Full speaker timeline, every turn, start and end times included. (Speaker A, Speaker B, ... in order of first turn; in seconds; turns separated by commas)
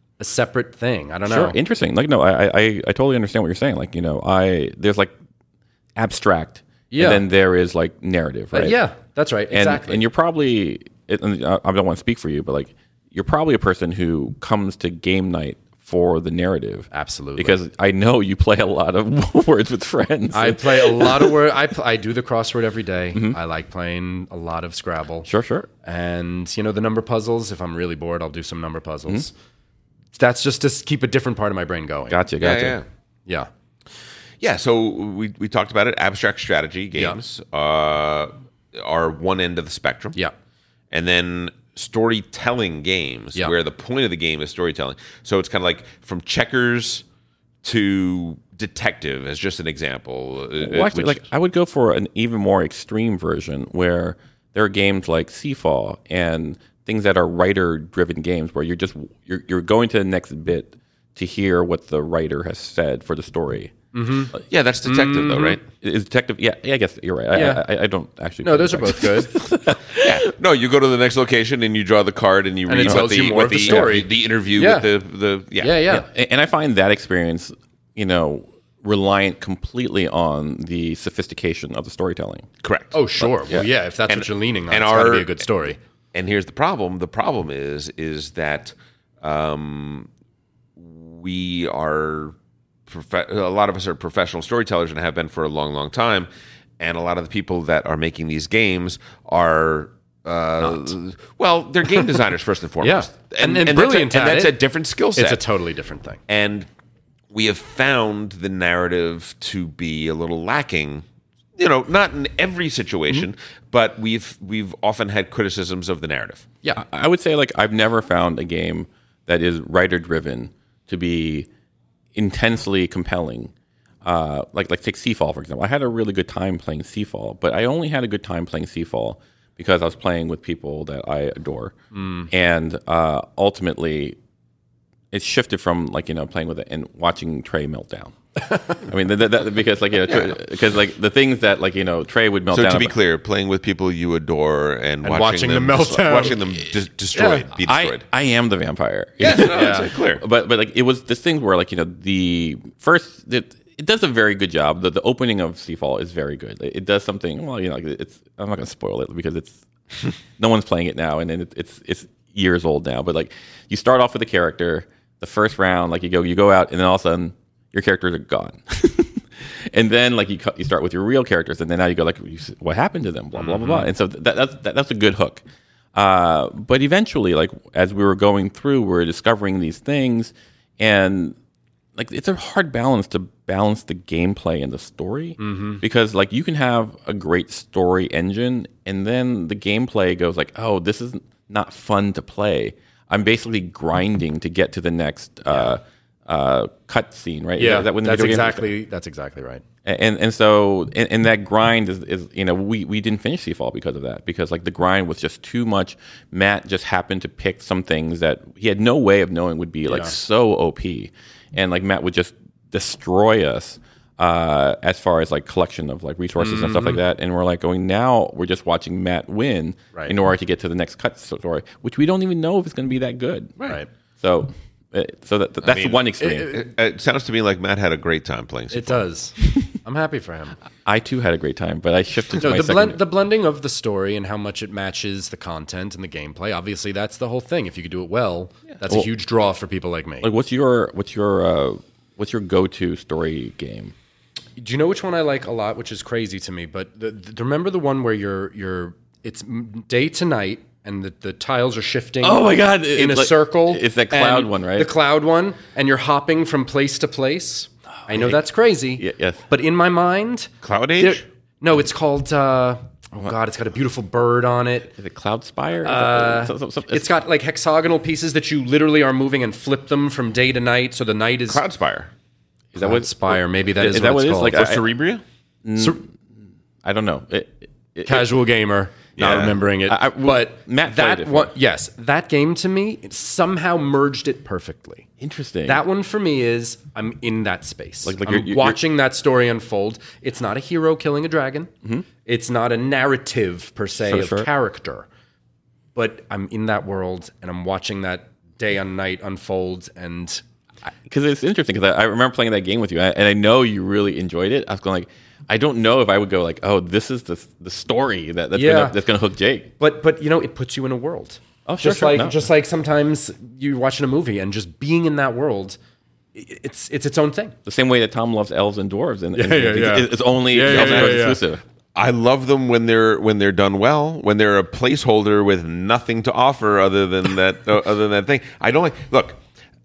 Speaker A: 0.2-1.6, Speaker B: 1.2-5.1, Speaker B: 6.0-8.8, Speaker A: 6.9-7.2, Speaker A: 8.5-10.0, Speaker B: 9.5-21.4, Speaker A: 16.9-17.6, Speaker A: 20.3-25.3, Speaker B: 25.2-25.7, Speaker A: 25.8-29.3, Speaker A: 30.1-32.2, Speaker B: 32.1-32.8, Speaker C: 32.4-32.9, Speaker C: 34.4-40.2, Speaker C: 40.9-47.0, Speaker C: 47.6-51.2, Speaker B: 50.6-63.7, Speaker A: 63.9-64.3, Speaker C: 64.4-65.6, Speaker A: 64.8-65.6, Speaker B: 65.8-70.2, Speaker A: 67.3-67.6, Speaker A: 68.4-69.3, Speaker C: 70.0-75.8, Speaker A: 72.7-74.9, Speaker B: 72.8-74.0, Speaker A: 75.6-76.0, Speaker B: 75.9-82.5, Speaker C: 82.6-83.0, Speaker A: 82.9-85.8, Speaker C: 84.1-85.4, Speaker C: 86.1-90.1, Speaker C: 90.8-92.3, Speaker C: 92.9-96.3, Speaker C: 96.8-105.4, Speaker A: 100.6-100.9, Speaker A: 102.8-104.6, Speaker A: 105.2-106.2, Speaker C: 106.3-106.7, Speaker C: 107.3-111.0, Speaker C: 111.6-116.5, Speaker B: 116.7-121.5, Speaker B: 122.1-123.5, Speaker B: 124.0-131.7, Speaker A: 131.9-132.3, Speaker B: 132.3-134.2, Speaker B: 135.1-138.1, Speaker B: 138.7-142.9, Speaker C: 140.1-140.3, Speaker C: 142.5-148.0, Speaker A: 145.0-146.4, Speaker A: 147.1-147.4, Speaker B: 147.6-159.6, Speaker C: 149.2-150.2, Speaker A: 149.4-149.9, Speaker B: 160.4-175.4, Speaker A: 173.4-173.9, Speaker B: 175.9-181.3, Speaker B: 181.9-198.7, Speaker A: 185.4-185.8, Speaker A: 197.6-199.6, Speaker B: 199.8-223.5, Speaker A: 209.9-210.1, Speaker A: 216.4-217.0, Speaker A: 223.6-223.9, Speaker B: 224.2-226.5, Speaker C: 225.6-229.1, Speaker A: 226.2-226.7, Speaker A: 228.7-230.6, Speaker B: 230.8-233.0, Speaker A: 232.4-240.3, Speaker B: 240.2-243.9, Speaker A: 244.6-264.9, Speaker B: 252.2-254.9, Speaker B: 258.1-258.4, Speaker B: 259.0-259.4, Speaker C: 260.6-261.2, Speaker B: 264.9-267.1, Speaker A: 265.8-271.6, Speaker C: 271.5-272.1, Speaker B: 272.7-274.8, Speaker A: 272.8-274.6, Speaker C: 274.4-275.2, Speaker B: 275.6-276.2, Speaker B: 276.8-278.4, Speaker A: 278.0-285.1, Speaker C: 279.2-279.6, Speaker B: 279.2-281.5, Speaker B: 285.2-285.8, Speaker A: 285.6-291.7, Speaker B: 288.0-288.8, Speaker A: 292.2-295.1, Speaker B: 294.1-294.5, Speaker A: 295.9-300.4, Speaker B: 301.1-309.7, Speaker A: 308.5-309.0, Speaker A: 309.8-315.8, Speaker B: 311.6-312.4, Speaker A: 316.3-317.6, Speaker B: 317.6-321.6, Speaker A: 319.3-321.4, Speaker C: 320.6-321.3, Speaker C: 321.9-329.4